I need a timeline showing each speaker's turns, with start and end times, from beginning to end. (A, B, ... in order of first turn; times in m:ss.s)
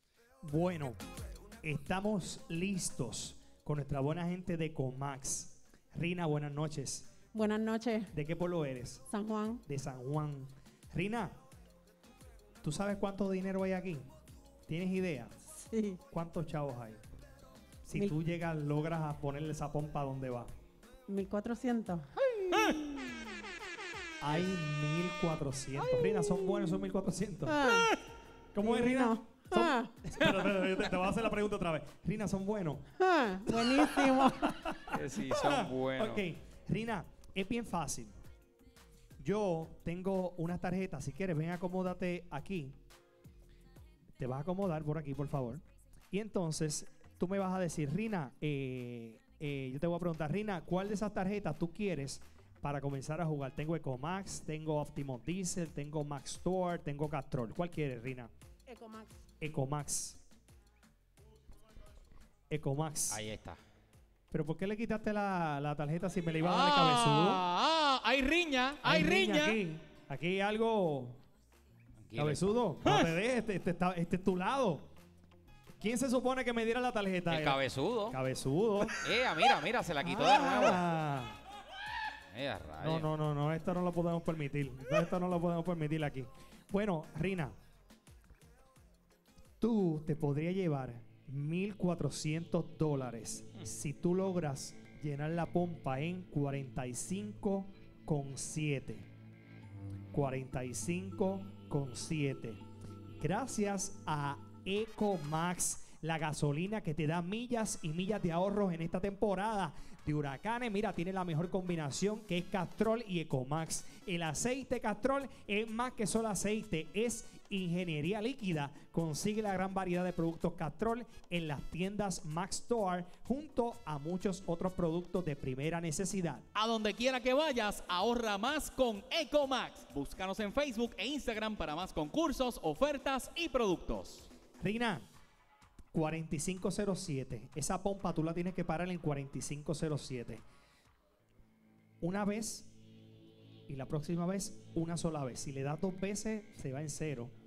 0:00.4-0:01.0 A
0:01.6-0:07.1 A
0:07.3-0:08.1 B
0:08.1-0:09.1 A
0:09.1-0:09.6 B
0:09.6-0:11.3 A
0:12.6-0:14.1 A
0:14.7-0:15.3 A
0:15.7-0:16.0 B
0:16.1-0:17.0 A
0:17.8-0:20.5 A
0:21.1-0:23.0 B
0:24.2-0:27.6 A
0:27.5-0:27.9 B
0:28.5-0:32.8 A
0:28.6-0:29.9 B
0:33.0-0:34.5 B
0:33.5-0:38.2 A
0:34.9-0:36.2 C
0:39.2-0:42.8 A
0:44.2-0:58.3 A
0:58.7-0:59.1 B
0:59.4-1:00.2 A
1:02.5-1:03.2 A
1:03.1-1:03.6 C
1:04.3-1:07.4 A
1:06.4-1:09.6 D
1:08.8-1:11.2 A
1:12.0-1:12.5 C
1:12.2-1:14.9 A
1:15.8-1:19.0 A
1:17.3-1:18.2 C
1:19.0-1:20.8 C
1:20.0-1:21.4 A
1:22.3-1:23.1 C
1:22.8-1:27.5 A
1:29.6-1:39.1 A
1:40.1-1:42.6 A
1:43.2-2:06.4 A
2:06.5-2:14.3 D
2:14.6-2:15.0 A
2:15.9-2:20.4 A
2:22.0-2:22.7 A
2:23.7-2:27.3 A